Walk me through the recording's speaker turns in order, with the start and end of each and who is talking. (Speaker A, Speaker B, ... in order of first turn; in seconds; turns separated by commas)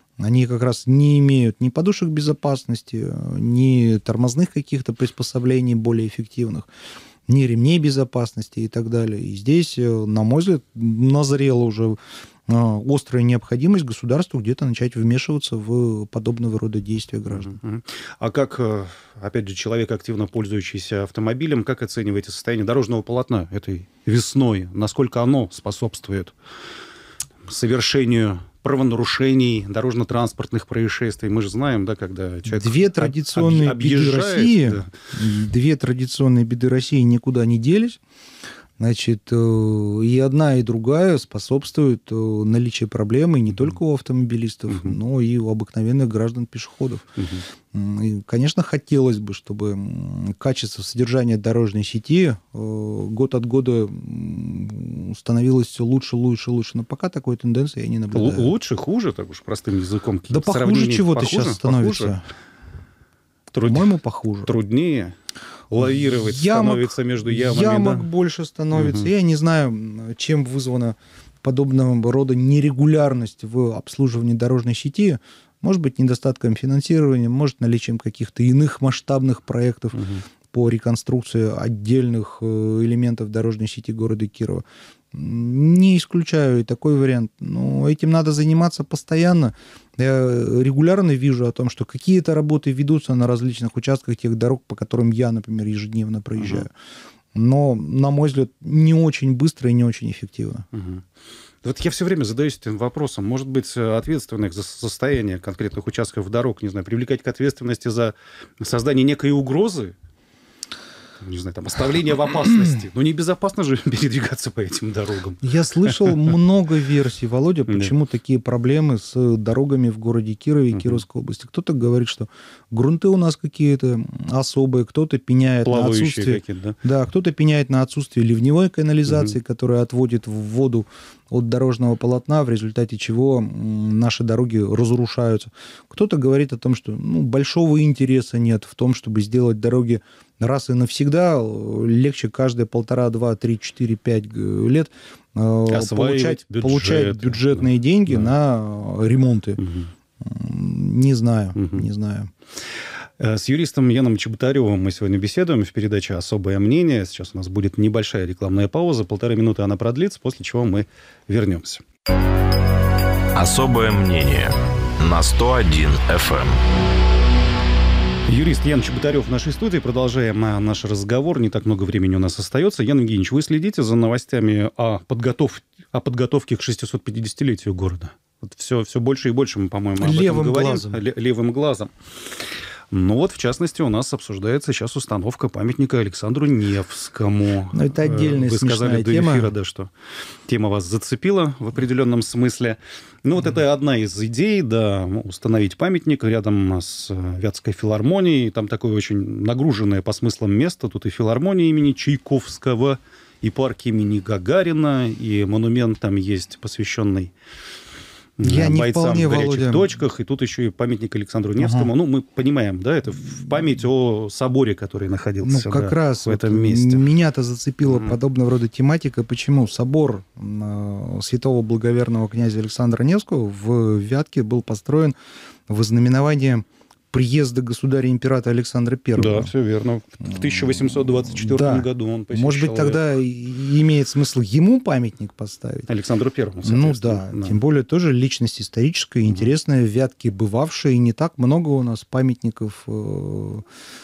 Speaker A: 0.2-6.7, Speaker A: 7.3-17.6, Speaker B: 17.3-26.4, Speaker B: 27.4-34.9, Speaker A: 32.5-38.0, Speaker A: 38.8-47.1, Speaker B: 44.7-44.9, Speaker B: 47.2-47.4, Speaker A: 47.7-58.5, Speaker B: 58.1-62.1, Speaker A: 60.3-62.2, Speaker B: 63.5-63.9, Speaker A: 63.7-64.5, Speaker B: 64.4-65.2, Speaker B: 65.7-68.1, Speaker A: 65.8-96.7, Speaker B: 68.7-69.1, Speaker B: 79.9-80.2, Speaker B: 96.4-96.7, Speaker A: 97.3-100.7, Speaker B: 100.7-101.0, Speaker B: 101.6-109.9, Speaker B: 111.2-116.1, Speaker A: 115.4-149.6, Speaker B: 120.7-121.0, Speaker B: 125.6-126.8, Speaker B: 145.7-148.3, Speaker B: 149.6-149.9, Speaker A: 150.2-152.3, Speaker B: 151.6-151.9, Speaker B: 153.2-161.8, Speaker C: 163.3-166.6, Speaker B: 168.3-181.9, Speaker A: 180.0-181.0, Speaker B: 182.9-189.9, Speaker A: 187.7-189.5, Speaker B: 190.5-207.3, Speaker B: 208.4-217.1, Speaker A: 208.4-209.9, Speaker A: 211.6-211.9, Speaker A: 215.4-225.1, Speaker B: 217.9-218.2, Speaker A: 225.7-229.5, Speaker B: 229.2-233.0, Speaker A: 230.2-235.9, Speaker B: 235.9-237.6, Speaker A: 236.6-243.6